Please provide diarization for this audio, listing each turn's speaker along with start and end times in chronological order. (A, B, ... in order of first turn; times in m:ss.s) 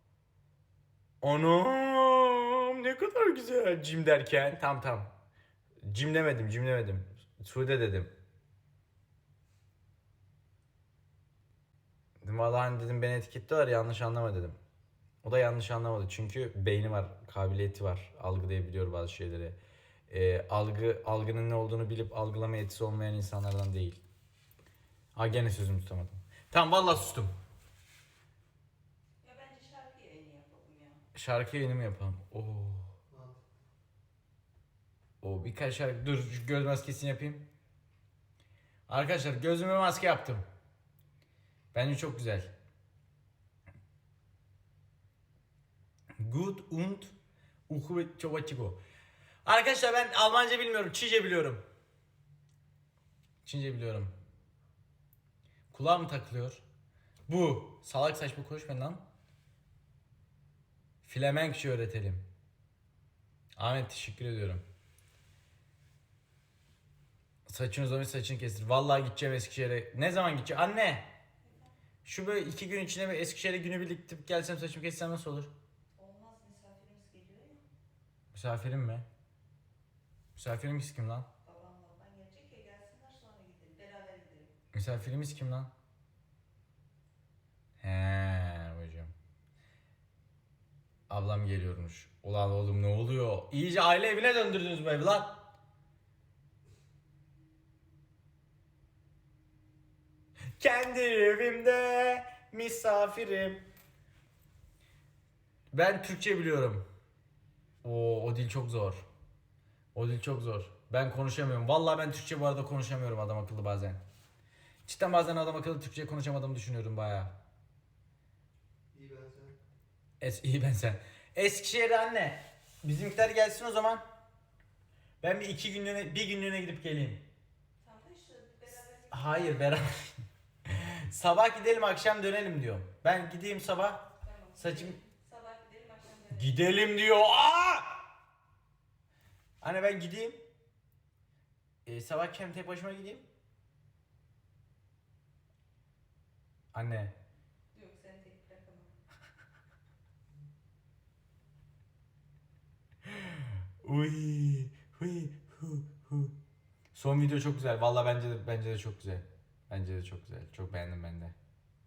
0:01.2-0:05.1 A
0:05.8-0:08.1 A
0:12.2-0:14.6 A
0:15.2-0:19.6 A
0:20.1-0:24.0 A
0:25.1-0:27.3 A
0:29.2-0:31.0 B
0:31.1-0:33.0 A
0:35.2-0:37.5 A
0:38.9-0:40.4 A
0:41.7-0:42.5 A
0:46.2-0:47.1 A
0:47.7-0:48.8 A
0:49.4-0:51.6 A
0:53.4-0:54.1 A
0:55.7-0:56.6 A
0:57.3-0:59.0 A
1:01.0-1:02.2 A
1:03.6-1:04.6 A
1:07.5-1:11.1 A
1:11.4-1:11.7 B
1:12.0-1:15.5 A
1:16.0-1:17.6 B
1:18.3-1:19.0 A
1:20.3-1:21.3 A
1:21.4-1:24.5 B
1:24.7-1:25.7 A
1:27.8-1:29.1 A
1:31.1-1:35.4 A
1:40.6-1:43.6 A
1:45.7-1:46.8 A
1:47.8-1:49.0 A
1:49.9-1:54.0 A
1:54.8-1:57.3 A
2:00.2-2:04.0 A
2:05.2-2:07.2 A
2:07.8-2:09.8 B
2:09.1-2:10.1 A
2:10.6-2:15.0 A
2:14.2-2:16.6 B
2:16.3-2:18.0 A
2:19.6-2:20.4 A
2:21.8-2:23.2 A
2:26.7-2:27.1 A
2:27.7-2:28.9 B
2:33.0-2:36.3 A
2:36.9-2:41.3 A